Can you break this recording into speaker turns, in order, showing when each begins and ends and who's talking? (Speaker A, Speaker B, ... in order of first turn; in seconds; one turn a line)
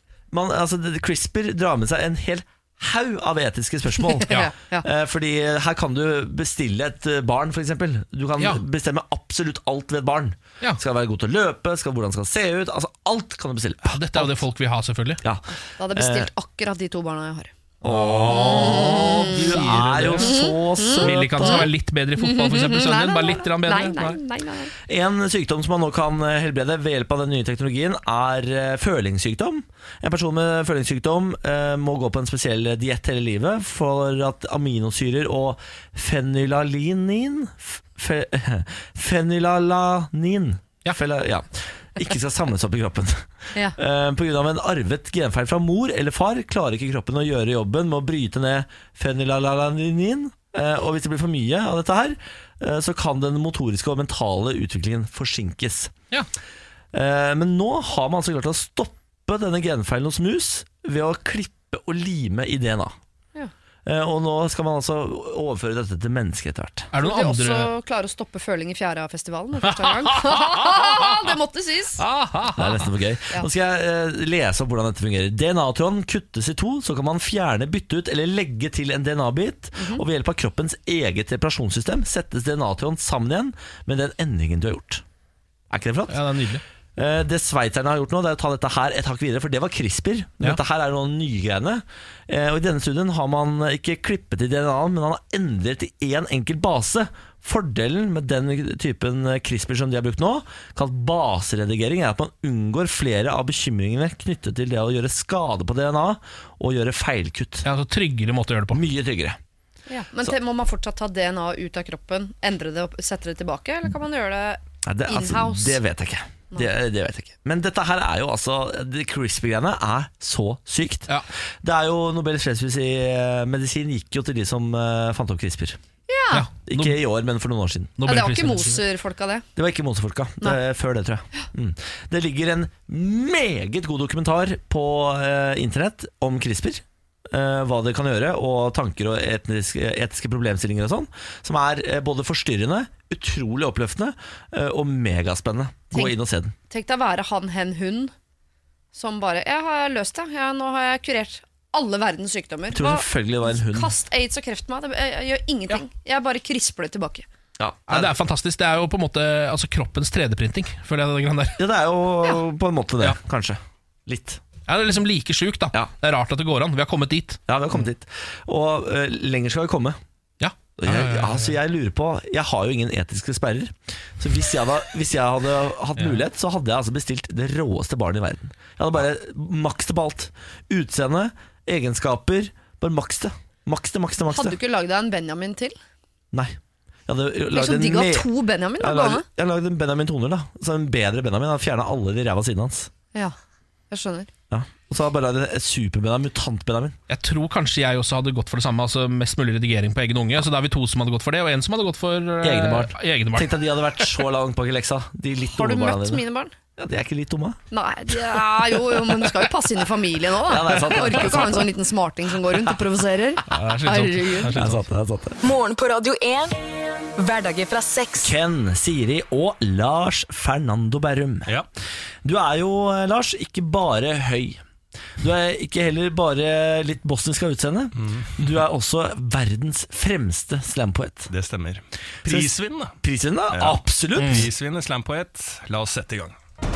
Speaker A: 0.3-14.4
Speaker B: 4.0-4.8
Speaker C: 13.8-15.2
Speaker A: 15.2-16.3
Speaker B: 15.8-17.5
Speaker A: 17.8-21.7
Speaker C: 17.9-20.4
Speaker B: 18.3-19.6
Speaker B: 20.2-24.7
Speaker C: 20.9-24.2
Speaker A: 24.9-55.9
Speaker A: 56.9-62.9
Speaker A: 63.8-66.9
Speaker C: 66.9-67.7
Speaker B: 67.0-72.0
Speaker C: 69.7-71.2
Speaker C: 72.0-72.9
Speaker A: 72.5-85.0
Speaker B: 79.8-80.0
Speaker A: 85.7-86.2
Speaker C: 86.1-86.6
Speaker A: 87.0-107.7
Speaker C: 107.6-108.8
Speaker A: 108.7-109.4
Speaker B: 109.9-115.8
Speaker A: 114.8-121.1
Speaker A: 121.6-125.8
Speaker B: 126.1-126.5
Speaker C: 126.3-127.0
Speaker A: 126.7-127.9
Speaker C: 128.0-128.8
Speaker B: 128.0-129.5
Speaker A: 129.6-146.5
Speaker B: 146.7-148.1
Speaker B: 148.9-157.2
Speaker A: 152.7-153.9
Speaker A: 157.6-158.1
Speaker C: 157.9-161.6
Speaker A: 161.6-164.4
Speaker C: 164.7-167.4
Speaker A: 167.5-170.0
Speaker C: 170.4-171.6
Speaker A: 170.8-184.6
Speaker B: 184.3-185.7
Speaker A: 187.1-192.9
Speaker B: 187.5-189.2
Speaker B: 193.9-194.3
Speaker A: 194.5-197.0
Speaker C: 197.1-204.0
Speaker A: 202.4-206.2
Speaker B: 205.4-206.5
Speaker A: 206.8-207.6
Speaker B: 207.7-214.6
Speaker A: 210.4-211.7
Speaker C: 213.5-214.8
Speaker A: 214.5-215.4
Speaker D: 215.4-216.6
Speaker D: 217.2-218.3
Speaker A: 218.2-221.5
Speaker A: 222.2-224.6
Speaker A: 225.2-231.3
Speaker E: 228.0-228.3
Speaker E: 231.3-233.0
Speaker A: 232.2-234.5
Speaker E: 233.5-236.3
Speaker C: 234.2-234.5